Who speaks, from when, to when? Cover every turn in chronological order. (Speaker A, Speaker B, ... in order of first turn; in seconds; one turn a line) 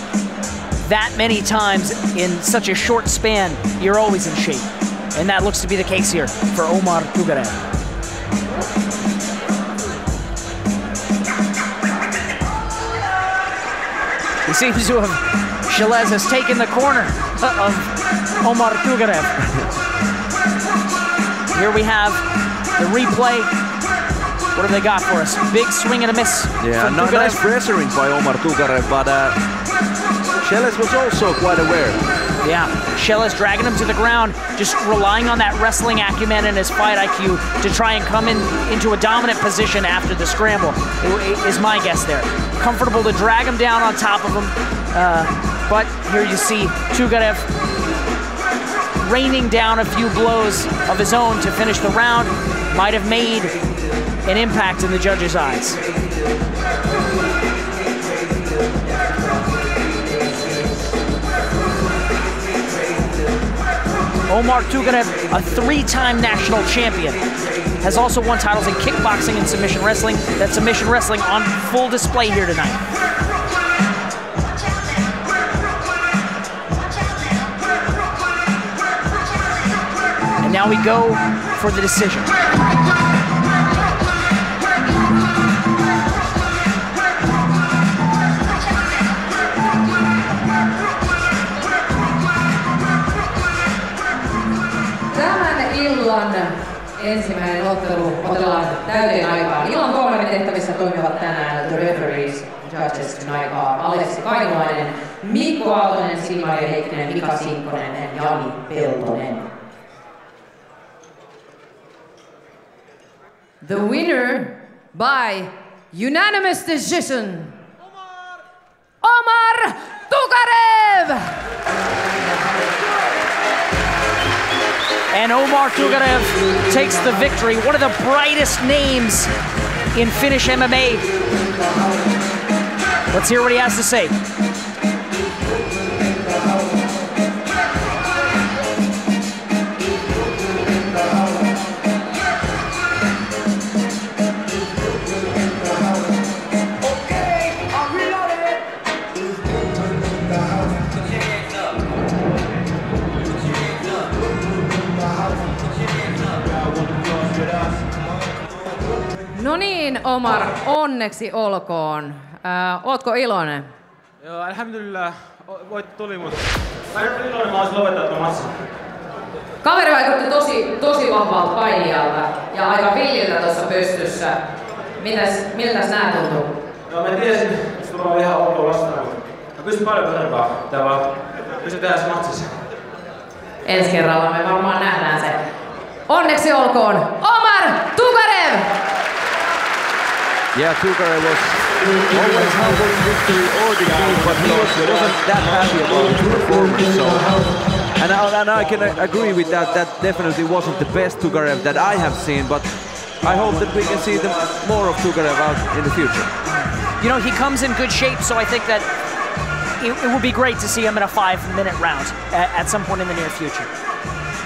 Speaker A: 0.8-7.6
Speaker A: 14.4-17.9
Speaker A: 18.4-19.4
Speaker A: 21.5-22.2
Speaker A: 22.8-23.5
Speaker A: 24.5-27.4
Speaker B: 26.6-29.4
Speaker B: 30.4-32.0
Speaker A: 32.4-47.5
Speaker A: 49.0-53.5
Speaker A: 54.2-55.8
Speaker A: 64.3-67.2
Speaker A: 67.8-72.8
Speaker A: 80.4-82.3
Speaker C: 95.1-109.5
Speaker C: 113.6-117.6
Speaker C: 119.0-121.4
Speaker A: 125.1-129.3
Speaker A: 129.9-131.0
Speaker A: 133.1-134.1
Speaker C: 159.3-163.7
Speaker D: 164.2-166.3
Speaker D: 166.9-168.6
Speaker C: 169.6-174.4
Speaker C: 175.0-176.5
Speaker D: 176.9-181.0
Speaker D: 181.6-182.6
Speaker C: 183.6-185.4
Speaker C: 186.1-188.7
Speaker B: 190.5-197.3
Speaker B: 198.0-202.7
Speaker B: 203.2-206.3
Speaker A: 206.9-208.9
Speaker A: 209.8-213.7